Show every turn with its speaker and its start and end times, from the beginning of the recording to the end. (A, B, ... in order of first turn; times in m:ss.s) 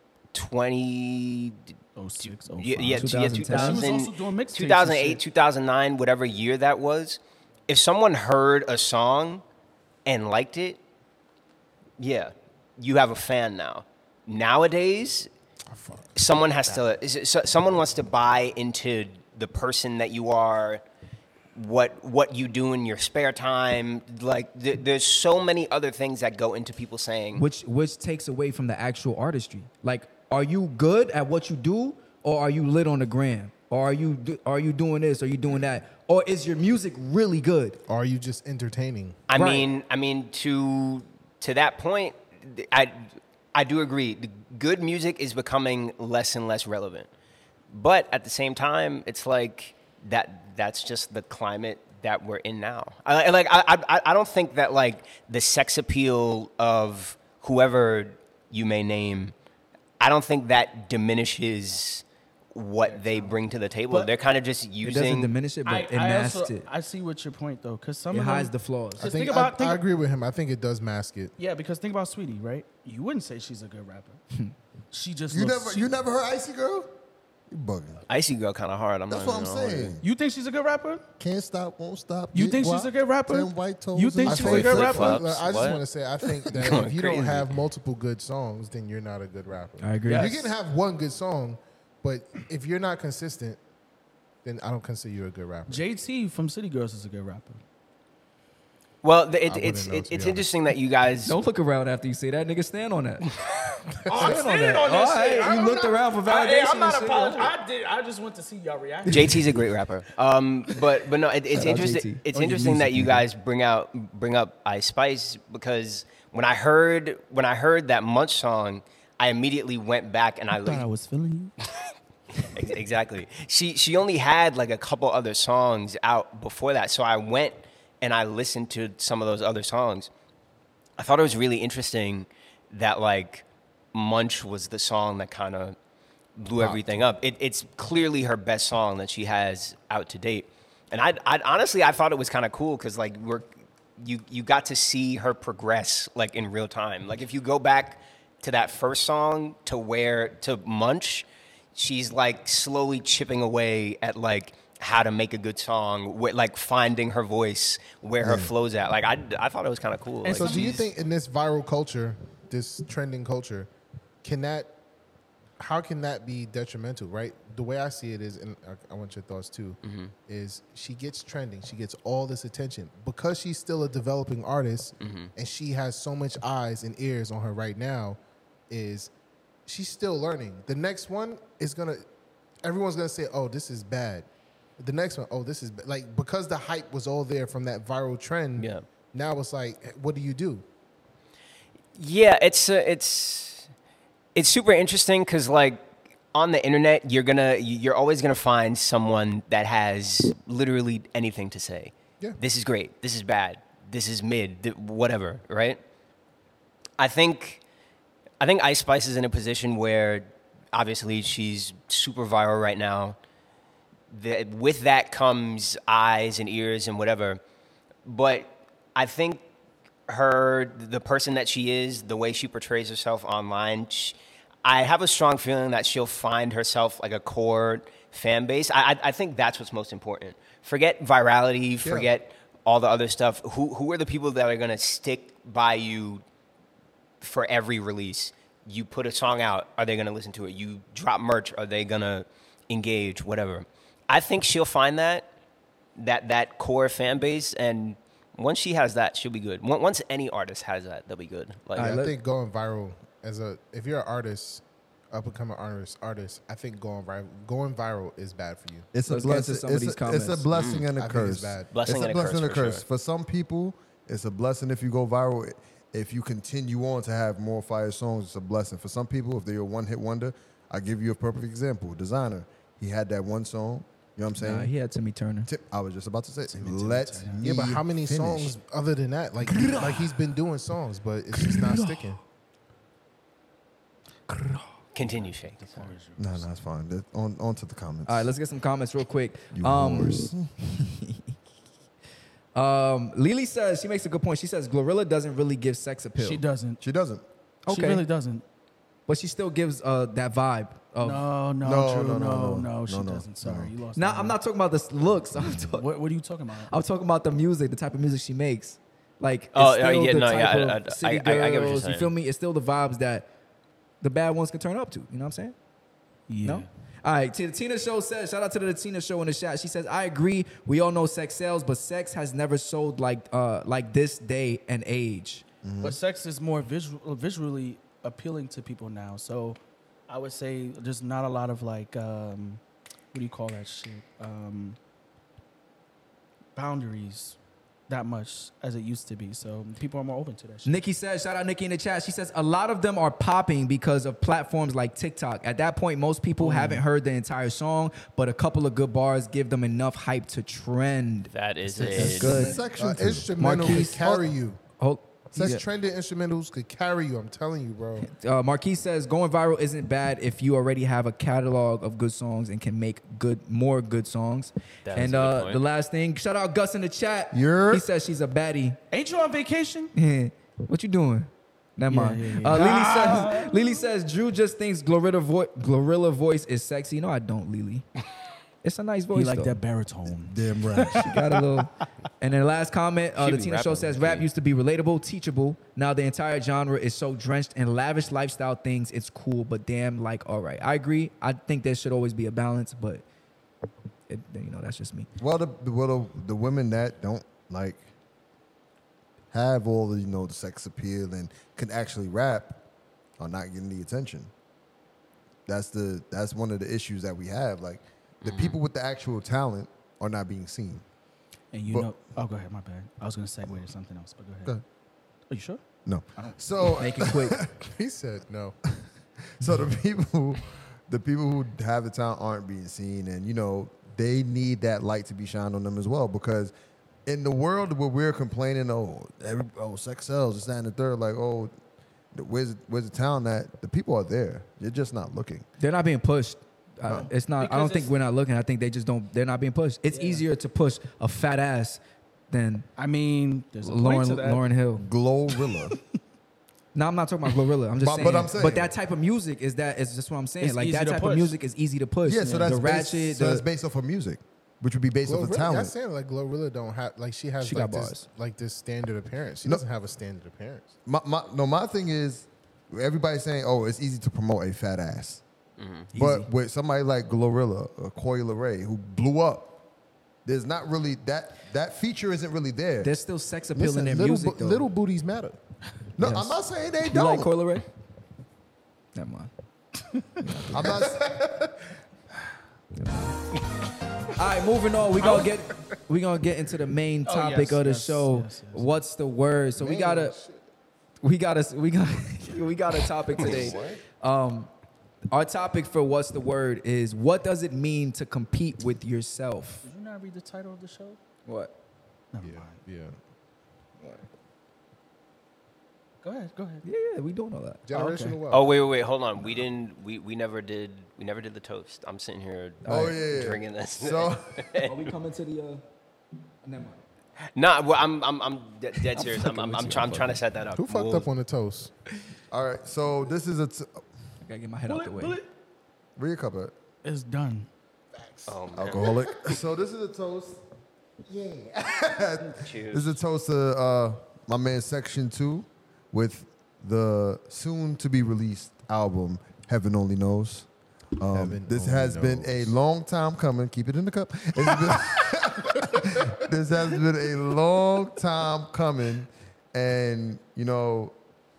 0:00.3-0:01.6 A
0:02.0-0:05.2 B
0:02.2-0:09.4 A
0:02.9-0:03.9 C
0:10.0-0:10.8 A
0:12.0-0:15.3 A
0:15.7-0:16.2 D
0:16.1-0:20.8 A
0:21.5-0:27.4 A
0:27.4-0:37.8 C
0:37.9-0:39.2 D
0:39.3-0:47.1 A
0:39.3-0:39.7 C
0:47.7-0:59.3 A
1:00.0-1:02.0 A
1:02.5-1:05.3 A
1:02.8-1:03.4 B
1:04.8-1:06.7 C
1:05.6-1:09.8 B
1:08.1-1:09.1 C
1:09.0-1:11.4 D
1:11.4-1:14.2 B
1:14.9-1:15.9 B
1:15.3-1:16.9 E
1:17.5-1:18.0 E
1:18.1-1:20.0 A
1:19.1-1:20.0 E
1:20.0-1:21.0 B
1:21.2-1:25.2 E
1:22.3-1:25.2 B
1:24.3-1:25.8 A
1:24.8-1:33.6 D
1:26.4-1:27.5 A
1:29.8-1:30.3 C
1:30.0-1:30.5 B
1:34.4-1:35.8 D
1:35.7-1:37.6 B
1:39.0-1:41.4 A
1:39.4-1:40.5 D
1:41.2-1:43.3 C
1:44.1-1:49.6 B
1:44.1-1:44.4 D
1:44.2-1:47.5 C
1:49.0-1:49.4 C
1:49.1-2:00.9 A
1:51.5-1:53.2 C
1:52.4-1:52.6 B
2:00.5-2:01.5 B
2:02.4-2:10.1 A
2:11.0-2:15.8 A
2:16.4-2:40.8 A
2:38.2-2:38.5 E
2:40.2-2:40.9 B
2:40.3-2:43.7 D
2:44.2-2:44.7 D
2:45.6-2:58.2 D
2:49.8-2:50.1 A
2:55.0-2:55.3 A
2:58.7-2:59.1 D
2:59.6-3:02.0 D
3:02.6-3:04.3 D
3:04.8-3:10.6 D
3:08.6-3:08.8 A
3:11.9-3:13.7 A
3:14.3-3:25.8 A
3:27.0-3:27.6 A
3:28.4-3:33.2 A
3:34.1-3:37.4 A
3:38.0-3:39.4 A
3:40.1-3:56.2 A
3:57.2-4:05.3 A
4:06.0-4:11.9 A
4:11.8-4:12.1 C
4:11.8-4:18.9 D
4:18.9-4:34.7 E
4:19.1-4:20.5 C
4:20.5-4:20.9 A
4:21.0-4:21.7 D
4:21.7-4:22.8 A
4:34.4-4:35.5 C
4:35.4-4:38.5 E
4:36.5-4:37.4 B
4:37.4-4:42.2 D
4:39.5-4:40.1 C
4:41.4-4:42.0 C
4:44.3-4:44.6 C
4:44.9-4:45.9 A
4:45.0-4:46.5 B
4:46.2-4:48.3 E
4:48.0-4:51.3 C
4:49.5-4:50.5 E
4:52.5-4:56.4 C
4:56.2-4:56.8 B
4:56.8-4:57.2 E
4:57.7-4:58.0 C
4:57.7-4:58.4 B
4:59.1-5:01.2 C
5:01.0-5:04.4 B
5:01.6-5:03.7 E
5:03.9-5:05.9 C
5:05.6-5:06.7 B
5:06.7-5:13.3 C
5:09.5-5:12.1 A
5:14.0-5:15.5 C
5:16.3-5:16.7 B
5:16.4-5:25.4 C
5:25.6-5:26.0 E
5:25.8-5:32.6 B
5:33.1-5:34.8 B
5:36.6-5:37.4 B
5:37.9-5:40.7 B
5:40.6-5:51.3 C
5:46.4-5:46.8 B
5:51.3-5:52.5 A
5:51.7-5:54.3 E
5:51.9-5:52.6 C
5:52.3-5:54.6 D
5:53.4-5:54.1 C
5:54.8-5:55.6 C
5:55.3-5:58.1 D
5:58.0-6:08.8 C
6:04.9-6:05.6 A
6:07.3-6:07.9 E
6:08.9-6:09.9 B
6:09.9-6:17.9 C
6:11.9-6:13.8 B
6:18.6-6:19.6 C
6:19.1-6:21.4 B
6:20.2-6:21.1 E
6:21.0-6:33.0 C
6:23.2-6:24.3 A
6:34.1-6:35.1 C
6:35.2-6:37.8 E
6:39.3-6:42.6 E
6:43.2-6:44.3 E
6:45.4-6:50.8 E
6:48.2-6:48.6 A
6:51.5-6:54.6 B
6:55.3-6:55.6 B
6:55.9-6:57.6 E
6:56.8-6:57.4 C
6:57.6-6:58.6 D
6:59.2-7:06.5 E
7:07.0-7:11.6 E
7:12.1-7:15.5 E
7:15.6-7:21.8 C
7:17.4-7:17.9 B
7:19.9-7:20.2 B
7:22.3-7:22.7 C
7:22.8-7:24.4 B
7:23.6-7:24.9 C
7:24.8-7:25.8 E
7:25.4-7:25.8 B
7:26.7-7:33.4 C
7:27.8-7:28.7 E
7:30.4-7:31.4 B
7:32.0-7:35.7 E
7:35.0-7:40.7 D
7:37.4-7:38.0 C
7:40.9-7:45.2 E
7:45.6-7:45.9 A
7:45.9-7:46.3 C
7:45.9-7:49.6 E
7:50.2-7:52.9 E
7:52.8-7:54.6 C
7:53.6-7:55.4 D
7:56.0-7:57.3 E
7:56.0-7:56.4 C
7:56.9-7:57.6 C
7:58.9-7:59.3 C
8:00.2-8:00.6 C
8:00.5-8:01.4 E
8:00.9-8:01.4 D
8:02.8-8:03.2 C
8:04.1-8:10.2 C
8:05.0-8:05.3 B
8:07.0-8:08.8 B
8:09.6-8:10.4 D
8:11.0-8:14.5 C
8:13.2-8:13.8 A
8:15.1-8:19.6 C
8:19.6-8:21.0 B
8:21.2-8:21.5 C
8:22.1-8:22.6 B
8:22.2-8:23.0 D
8:23.8-8:24.0 C
8:26.0-8:26.6 B
8:26.6-8:28.1 C
8:27.7-8:28.4 D
8:28.3-8:34.9 A
8:32.6-8:33.0 C
8:32.7-8:34.5 E
8:34.6-8:35.6 C
8:36.4-8:36.8 C
8:37.3-8:41.1 A
8:38.9-8:40.2 C
8:40.6-8:41.7 D
8:42.3-8:43.8 E
8:44.2-8:45.2 C
8:44.7-8:45.3 B
8:46.0-8:46.5 E
8:46.8-8:47.5 B
8:48.0-8:48.3 D
8:48.3-8:49.0 A
8:48.5-8:50.4 E
8:51.1-8:51.7 D
8:51.6-9:00.5 E
8:52.3-8:53.0 A
9:01.0-9:10.9 E
9:01.1-9:02.5 D
9:05.7-9:06.0 D